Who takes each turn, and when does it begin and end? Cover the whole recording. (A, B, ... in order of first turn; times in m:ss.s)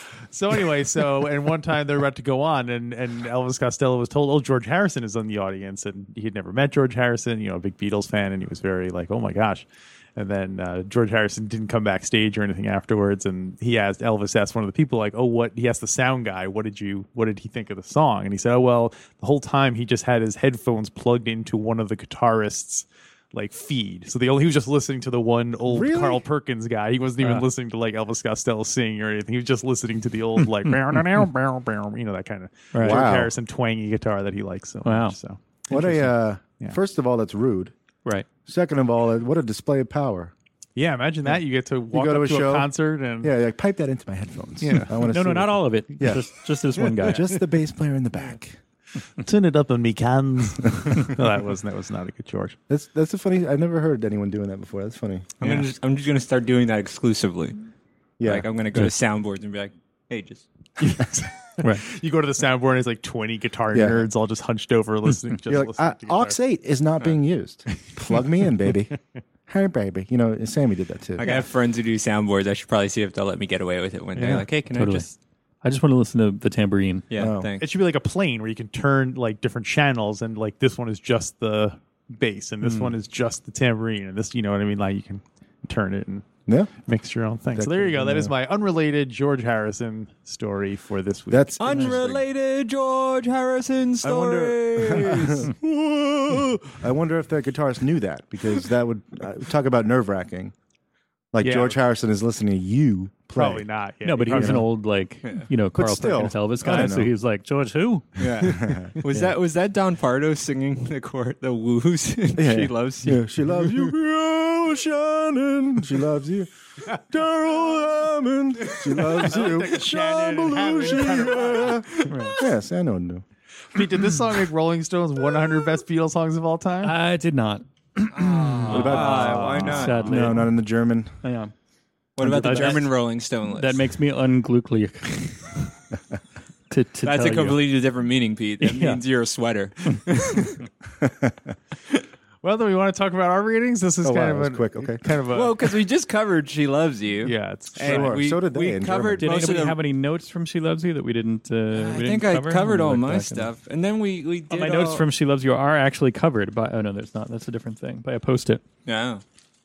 0:00.3-0:36.8 A
0:25.7-0:26.2 B
0:32.7-0:33.1 C
0:32.8-0:33.3 B
0:34.8-0:35.2 C
0:35.7-0:37.7 B
0:38.5-0:40.3 B
0:40.8-0:43.4 A
0:41.9-0:46.3 B
0:44.6-0:44.9 A
0:45.0-0:47.3 C
0:47.0-0:48.6 B
0:49.2-0:52.6 A
0:52.7-0:55.3 B
0:55.4-0:57.6 D
0:58.2-0:58.5 B
0:58.2-1:00.5 D
1:00.8-1:06.4 A
1:03.7-1:04.1 B
1:05.5-1:11.4 B
1:11.2-1:15.1 D
1:14.2-1:14.5 A
1:14.7-1:17.1 C
1:17.1-1:17.7 D
1:17.2-1:17.5 B
1:17.6-1:26.3 A
1:22.6-1:22.9 D
1:26.5-1:26.7 B
1:26.9-1:32.2 A
1:27.5-1:28.3 B
1:31.3-1:32.2 B
1:31.6-1:35.5 D
1:34.0-1:40.5 B
1:41.3-1:43.7 B
1:41.4-1:41.8 A
1:43.3-1:44.6 A
1:44.0-1:48.2 C
1:44.3-1:44.7 B
1:45.7-1:47.1 B
1:48.2-1:53.3 D
1:48.4-1:48.8 A
1:48.4-1:49.0 B
1:52.4-2:03.2 B
1:58.8-1:59.1 D
1:59.1-2:02.3 A
2:02.1-2:02.4 C
2:03.7-2:06.9 A
2:06.8-2:09.0 C
2:08.1-2:10.3 D
2:08.6-2:10.0 A
2:08.7-2:11.2 B
2:09.6-2:10.6 C
2:11.2-2:11.5 C
2:12.2-2:13.8 D
2:12.2-2:12.7 B
2:12.2-2:12.9 C
2:13.5-2:15.7 C
2:16.7-2:17.6 C
2:17.0-2:20.6 D
2:18.6-2:19.0 C
2:21.0-2:21.5 B
2:22.4-2:25.7 A
2:24.0-2:25.0 B
2:25.3-2:29.8 D
2:27.2-2:28.2 A
2:27.8-2:29.3 B
2:29.2-2:33.5 C
2:31.7-2:35.1 D
2:34.5-2:38.6 C
2:38.9-2:39.2 D